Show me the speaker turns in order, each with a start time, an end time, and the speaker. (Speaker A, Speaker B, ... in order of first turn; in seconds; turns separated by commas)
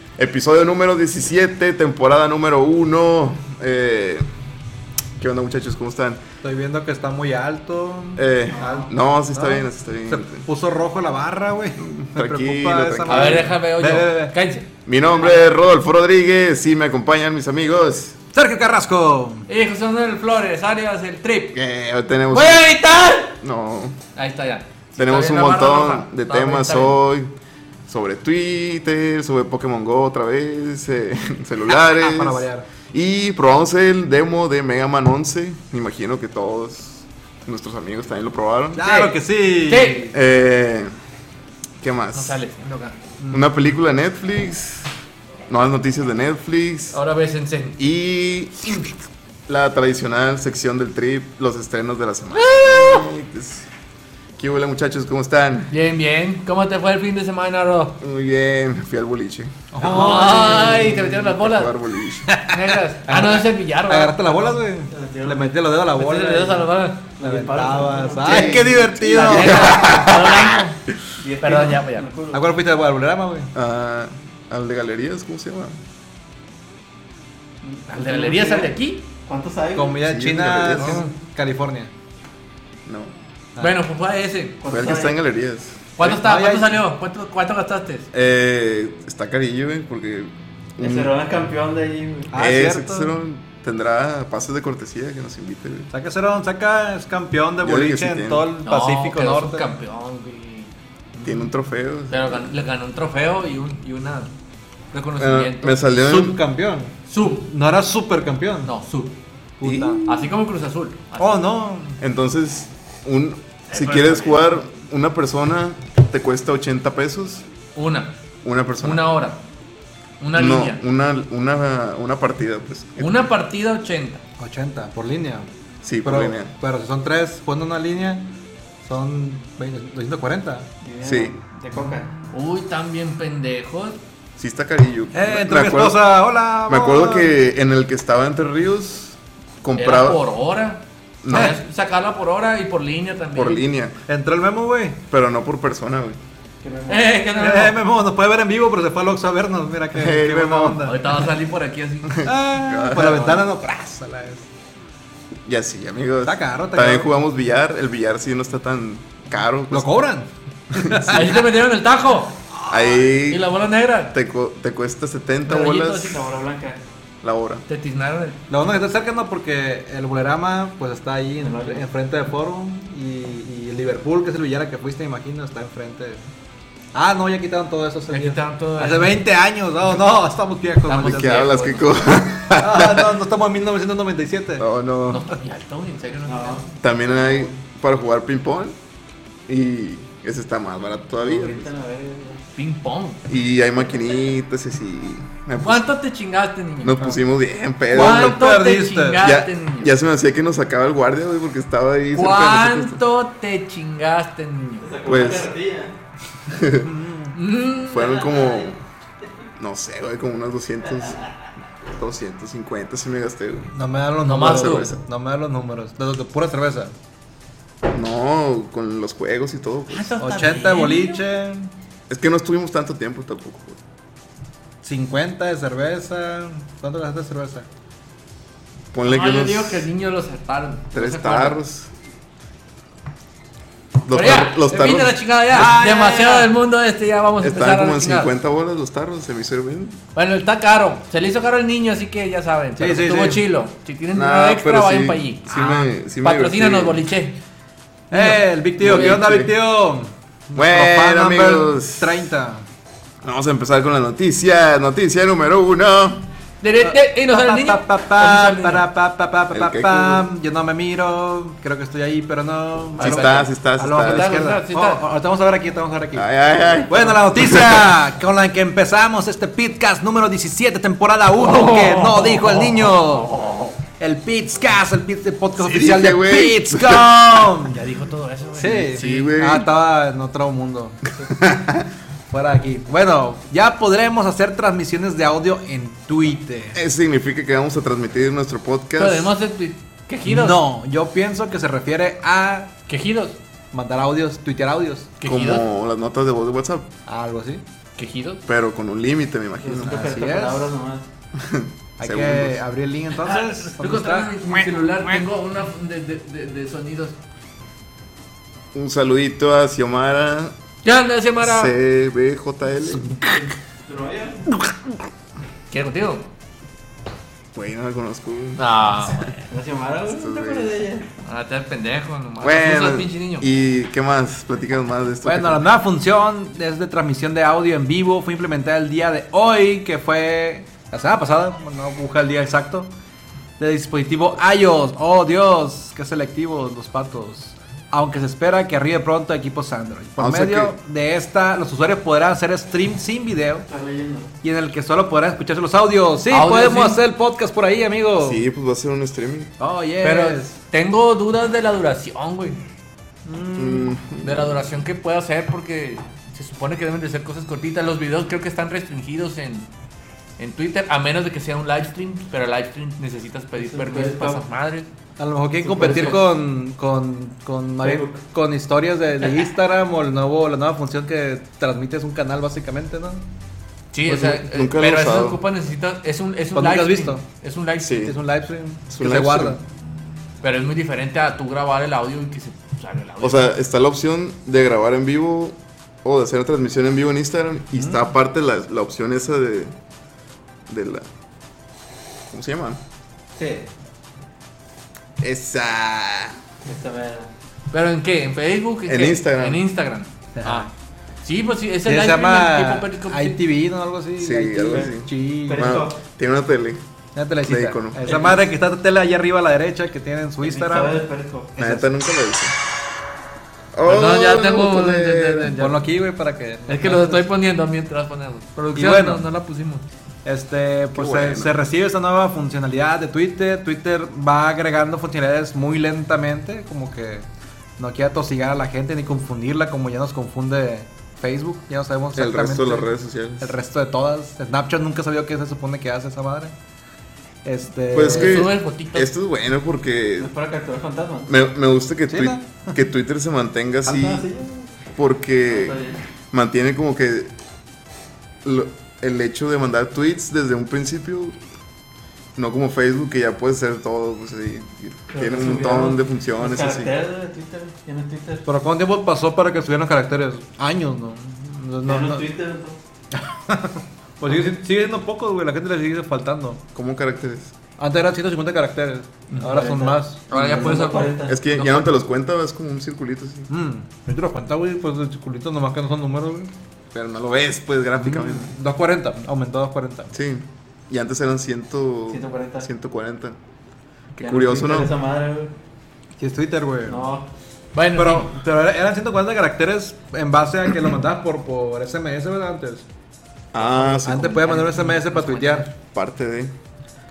Speaker A: 0.2-4.2, Speaker A: 5.2-6.2, Speaker B: 6.4-14.3, Speaker A: 8.2-10.4, Speaker C: 8.5-8.9, Speaker A: 11.8-13.5, Speaker D: 13.1-15.5, Speaker A: 14.8-18.1, Speaker B: 18.3-19.5, Speaker D: 19.5-21.6, Speaker A: 21.5-22.6, Speaker D: 22.3-23.4, Speaker A: 23.4-24.0, Speaker D: 24.1-27.0, Speaker A: 25.0-27.3, Speaker A: 27.9-38.8, Speaker B: 31.8-32.6, Speaker B: 38.8-40.1, Speaker D: 38.8-40.1, Speaker A: 40.1-40.9, Speaker A: 41.8-42.4, Speaker D: 42.1-43.0, Speaker A: 43.3-44.9, Speaker A: 45.5-47.0, Speaker D: 46.9-47.8, Speaker A: 47.8-48.9, Speaker A: 49.5-53.7, Speaker D: 52.3-53.1, Speaker A: 54.4-55.7, Speaker D: 55.7-58.0, Speaker A: 58.0-59.6, Speaker B: 59.7-60.9, Speaker D: 59.8-61.7, Speaker A: 60.2-62.3, Speaker B: 62.2-69.9, Speaker D: 62.5-64.4, Speaker C: 64.9-65.6, Speaker D: 65.9-67.1, Speaker C: 67.2-68.8, Speaker A: 68.2-70.6, Speaker D: 68.9-70.8, Speaker C: 71.2-72.5, Speaker D: 71.4-72.0, Speaker B: 72.3-73.5, Speaker A: 73.5-75.8, Speaker C: 77.6-80.0, Speaker D: 77.9-79.1, Speaker B: 79.7-81.9, Speaker A: 80.0-81.0, Speaker D: 80.8-81.1, Speaker A: 82.8-83.1, Speaker D: 83.6-84.6, Speaker C: 84.6-85.2, Speaker A: 84.7-86.1, Speaker D: 86.0-88.1, Speaker B: 86.0-86.8, Speaker A: 88.1-91.1, Speaker C: 90.8-92.3, Speaker B: 92.3-93.1, Speaker A: 92.3-95.9, Speaker B: 95.9-99.7, Speaker A: 97.6-98.5, Speaker D: 98.6-100.7, Speaker A: 101.2-102.5, Speaker D: 102.1-104.3, Speaker D: 104.9-105.9, Speaker A: 105.2-106.4, Speaker B: 106.0-108.7, Speaker D: 107.1-107.5, Speaker D: 108.6-109.2, Speaker B: 109.6-110.0, Speaker A: 109.6-110.3, Speaker D: 110.0-111.5, Speaker B: 111.2-112.0, Speaker A: 112.0-117.5, Speaker D: 113.7-114.5, Speaker D: 117.7-118.1, Speaker A: 118.4-119.0, Speaker D: 118.8-119.4, Speaker D: 120.2-120.8, Speaker A: 120.3-123.2, Speaker D: 123.0-124.2, Speaker B: 124.4-125.5, Speaker A: 125.8-126.5, Speaker B: 126.0-128.3, Speaker B: 128.8-130.7, Speaker C: 130.8-132.1, Speaker A: 131.0-131.3, Speaker D: 132.3-134.0, Speaker A: 134.4-136.1, Speaker B: 135.1-137.3, Speaker A: 136.7-140.2, Speaker D: 139.8-143.6, Speaker A: 141.2-141.6, Speaker B: 141.3-141.6, Speaker A: 143.3-143.9, Speaker B: 144.1-145.0, Speaker A: 145.1-146.2, Speaker C: 146.6-147.3, Speaker D: 146.9-147.8, Speaker B: 147.3-151.0, Speaker A: 149.9-151.1, Speaker D: 150.8-152.3, Speaker A: 152.1-153.4, Speaker B: 152.2-154.4, Speaker A: 155.4-160.0, Speaker B: 156.2-157.1, Speaker B: 159.7-161.3, Speaker A: 160.7-161.3, Speaker D: 161.1-162.4, Speaker B: 162.6-163.1, Speaker A: 162.7-163.4, Speaker D: 163.1-164.1, Speaker A: 164.1-166.2, Speaker D: 165.4-166.3, Speaker C: 166.1-166.8, Speaker A: 167.2-167.6, Speaker D: 167.7-168.4, Speaker B: 168.5-176.2, Speaker C: 171.4-171.8, Speaker B: 176.9-181.4, Speaker D: 178.1-179.2, Speaker D: 180.8-182.0, Speaker A: 181.0-183.2, Speaker B: 182.5-184.7, Speaker A: 184.6-185.2, Speaker D: 185.1-186.8, Speaker C: 186.2-186.6, Speaker A: 186.8-188.8, Speaker A: 189.5-191.7, Speaker C: 191.2-192.4, Speaker D: 192.6-193.2, Speaker A: 193.3-195.9, Speaker D: 195.6-197.0, Speaker A: 196.8-198.4, Speaker D: 197.9-199.9, Speaker B: 197.9-199.2, Speaker A: 199.2-203.0, Speaker D: 202.1-204.9, Speaker C: 204.8-205.9, Speaker A: 205.1-205.5, Speaker A: 206.5-206.9, Speaker B: 206.8-207.4, Speaker D: 207.3-208.3, Speaker A: 207.8-208.7, Speaker C: 208.2-208.7, Speaker A: 209.6-211.2, Speaker A: 211.9-213.7, Speaker B: 213.7-216.9, Speaker D: 214.2-214.9, Speaker A: 214.4-215.0, Speaker A: 217.9-220.1, Speaker D: 219.9-221.2, Speaker B: 220.2-221.7, Speaker A: 222.1-223.8, Speaker B: 224.8-227.7, Speaker A: 228.9-229.9, Speaker D: 229.0-231.6, Speaker A: 230.9-231.9, Speaker A: 234.0-235.2, Speaker D: 234.1-238.3, Speaker B: 235.5-236.5, Speaker A: 237.4-240.0, Speaker D: 240.1-247.4, Speaker B: 242.8-243.4, Speaker A: 244.1-247.0, Speaker D: 248.1-249.2, Speaker B: 248.1-252.6, Speaker A: 248.8-249.5, Speaker A: 250.5-252.2, Speaker A: 253.2-256.2, Speaker D: 256.6-258.9, Speaker B: 256.8-266.3, Speaker A: 259.5-260.2, Speaker A: 263.0-264.4, Speaker D: 263.0-265.0, Speaker A: 266.1-267.8, Speaker B: 266.9-273.3, Speaker D: 271.4-273.7, Speaker B: 274.0-277.8, Speaker A: 275.6-277.6, Speaker D: 277.7-279.3, Speaker B: 278.5-281.0, Speaker A: 278.9-279.7, Speaker A: 281.2-281.9, Speaker B: 282.3-286.8, Speaker A: 286.7-289.3, Speaker D: 289.0-290.6, Speaker B: 290.2-292.8, Speaker D: 292.9-293.4, Speaker B: 293.7-295.1, Speaker D: 295.2-295.6, Speaker A: 295.2-296.9, Speaker B: 297.1-297.6, Speaker D: 298.0-298.4, Speaker A: 298.4-300.0, Speaker C: 299.6-301.1, Speaker B: 299.8-300.7, Speaker A: 301.3-302.6, Speaker B: 302.0-304.6, Speaker D: 303.2-307.1, Speaker A: 308.7-310.5, Speaker D: 310.8-311.7, Speaker A: 311.4-313.5, Speaker C: 313.4-314.5, Speaker D: 315.7-316.3, Speaker A: 317.5-319.3, Speaker D: 318.6-319.4, Speaker C: 319.5-321.1, Speaker A: 320.1-320.8, Speaker D: 321.2-323.5, Speaker A: 322.4-325.6, Speaker B: 325.2-332.9, Speaker B: 333.6-343.7, Speaker A: 340.2-340.7, Speaker C: 343.7-344.3, Speaker B: 344.4-348.4, Speaker D: 346.3-347.0, Speaker A: 348.2-349.5, Speaker B: 349.6-350.6, Speaker D: 350.0-352.6, Speaker B: 353.2-353.9, Speaker A: 353.6-354.7, Speaker D: 354.2-359.7, Speaker D: 360.4-364.9, Speaker C: 363.6-364.4, Speaker B: 365.2-373.2, Speaker C: 365.7-366.1, Speaker D: 365.8-366.2, Speaker C: 367.8-368.2, Speaker D: 373.9-378.1, Speaker A: 374.1-375.4, Speaker B: 376.5-377.2, Speaker A: 377.8-378.1, Speaker B: 378.0-379.6, Speaker A: 378.9-379.6, Speaker D: 380.4-383.4, Speaker A: 383.2-389.7, Speaker A: 390.7-391.1, Speaker A: 392.3-392.8, Speaker C: 393.4-393.7, Speaker A: 395.2-396.4, Speaker C: 396.6-397.3, Speaker D: 397.7-400.7, Speaker A: 398.9-399.6, Speaker B: 400.4-400.7, Speaker D: 401.2-403.4, Speaker B: 401.9-405.8, Speaker A: 404.2-406.8, Speaker C: 404.7-404.9, Speaker C: 405.4-406.0, Speaker B: 407.1-411.9, Speaker A: 407.4-408.1, Speaker D: 408.1-408.4, Speaker C: 410.4-411.5, Speaker A: 411.6-412.6, Speaker A: 413.7-415.5, Speaker D: 413.9-415.9, Speaker B: 415.6-417.2, Speaker D: 416.7-419.8, Speaker B: 418.7-419.2, Speaker B: 420.2-427.3, Speaker A: 420.9-421.5, Speaker B: 427.8-432.9, Speaker A: 432.1-433.5, Speaker B: 433.4-436.5, Speaker B: 437.4-438.4, Speaker A: 437.9-440.3, Speaker D: 438.0-439.1, Speaker C: 440.2-441.3, Speaker A: 441.3-444.2, Speaker B: 442.1-442.8, Speaker C: 443.8-444.7, Speaker A: 444.9-445.8, Speaker C: 445.5-446.0, Speaker A: 446.3-447.3, Speaker A: 448.4-451.4, Speaker A: 452.4-456.9, Speaker C: 455.1-458.5, Speaker B: 458.4-462.2, Speaker C: 461.8-462.8, Speaker B: 463.2-466.6, Speaker A: 466.7-467.5, Speaker B: 467.8-470.7, Speaker D: 469.3-469.6, Speaker C: 469.4-471.7, Speaker D: 470.3-471.9, Speaker A: 471.3-473.5, Speaker B: 473.5-476.5, Speaker A: 476.9-478.5, Speaker B: 478.0-480.1, Speaker A: 480.1-483.4, Speaker C: 482.1-482.7, Speaker A: 484.1-484.9, Speaker C: 484.2-485.5, Speaker B: 486.2-487.1, Speaker C: 486.9-487.3, Speaker D: 487.7-488.3, Speaker B: 487.9-492.9, Speaker A: 493.5-494.5, Speaker B: 494.0-495.7, Speaker D: 494.4-495.7, Speaker A: 495.9-496.5